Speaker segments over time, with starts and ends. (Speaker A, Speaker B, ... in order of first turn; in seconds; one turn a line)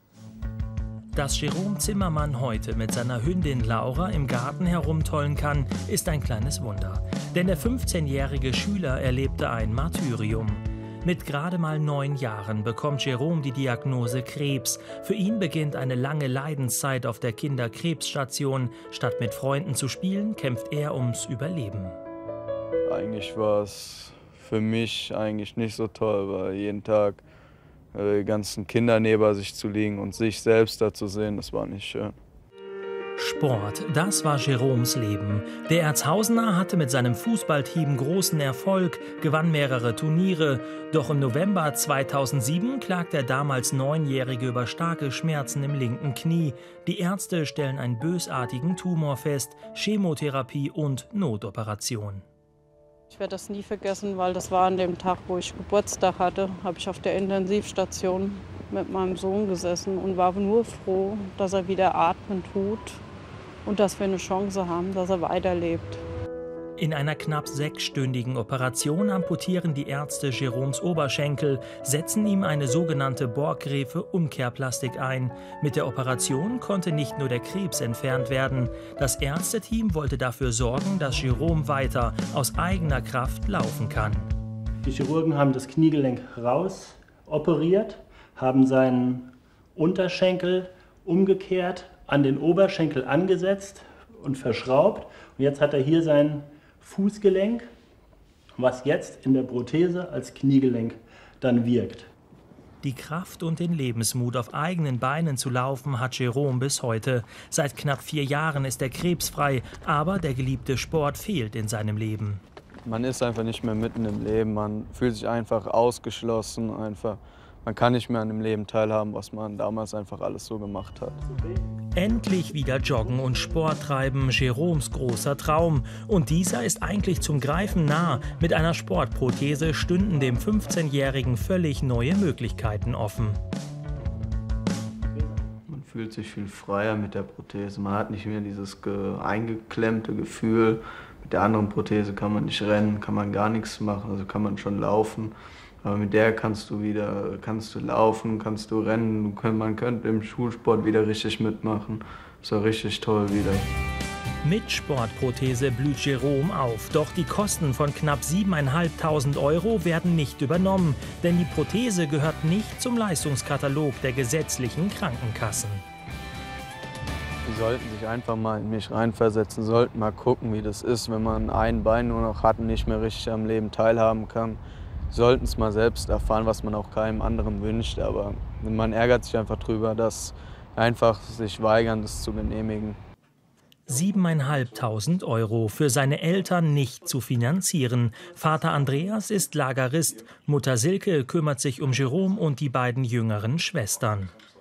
Speaker A: 1.1-22.0
Speaker B: 22.9-27.2
Speaker B: 27.9-32.2
Speaker A: 33.2-52.2
Speaker C: 53.1-63.0
Speaker C: 63.6-66.0
Speaker A: 66.8-84.3
Speaker D: 84.8-97.7
Speaker D: 98.6-102.1
Speaker A: 102.8-112.4
Speaker B: 112.8-121.2
Speaker A: 122.0-133.4
Speaker B: 135.7-153.7
Speaker A: 154.4-165.8
Speaker B: 167.4-174.6
Speaker B: 175.1-183.0
Speaker A: 183.9-194.3